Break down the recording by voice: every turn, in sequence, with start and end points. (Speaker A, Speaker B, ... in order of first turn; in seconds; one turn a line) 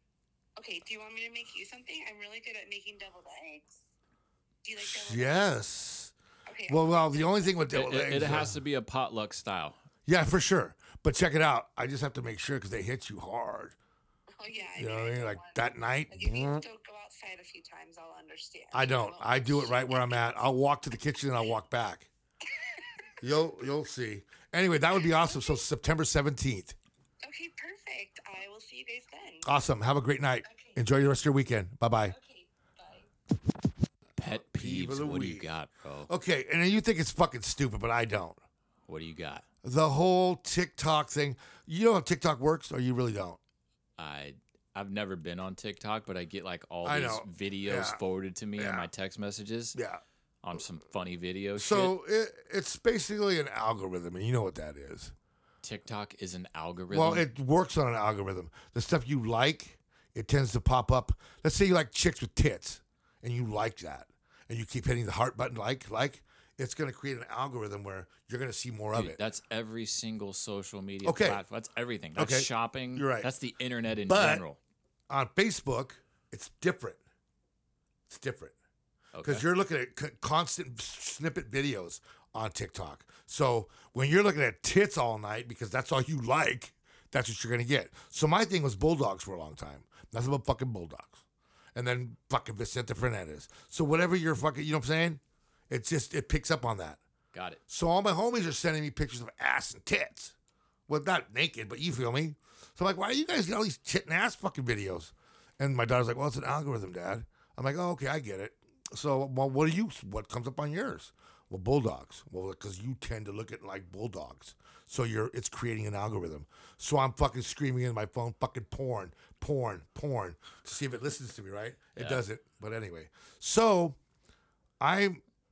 Speaker A: 0.6-3.8
Speaker A: 4.6-5.6
Speaker B: 4.8-6.1
Speaker A: 6.5-7.6
Speaker B: 6.7-8.5
Speaker C: 7.7-9.8
Speaker B: 10.1-13.8
Speaker A: 14.4-20.5
Speaker B: 14.7-16.6
Speaker B: 18.7-22.1
Speaker A: 22.5-22.9
Speaker B: 23.2-26.8
Speaker A: 25.0-25.6
Speaker A: 27.2-29.5
Speaker B: 29.4-32.1
Speaker A: 30.4-31.0
Speaker A: 32.1-33.1
Speaker C: 34.2-36.1
Speaker B: 34.4-35.5
Speaker B: 36.1-38.4
Speaker C: 38.9-39.4
Speaker B: 39.6-43.4
Speaker C: 44.0-49.8
Speaker B: 46.8-48.0
Speaker B: 48.6-48.9
Speaker B: 49.7-50.0
Speaker C: 50.4-52.0
Speaker B: 51.6-55.1
Speaker C: 55.6-57.3
Speaker B: 56.9-69.2
Speaker C: 68.9-74.6
Speaker B: 71.0-71.4
Speaker B: 72.2-73.3
Speaker B: 74.1-74.4
Speaker B: 75.1-77.0
Speaker B: 78.1-78.5
Speaker C: 79.1-79.4
Speaker B: 79.2-91.2
Speaker B: 91.7-97.0
Speaker C: 97.3-97.6
Speaker B: 97.7-100.3
Speaker B: 100.9-124.0
Speaker C: 122.0-122.2
Speaker B: 124.8-125.2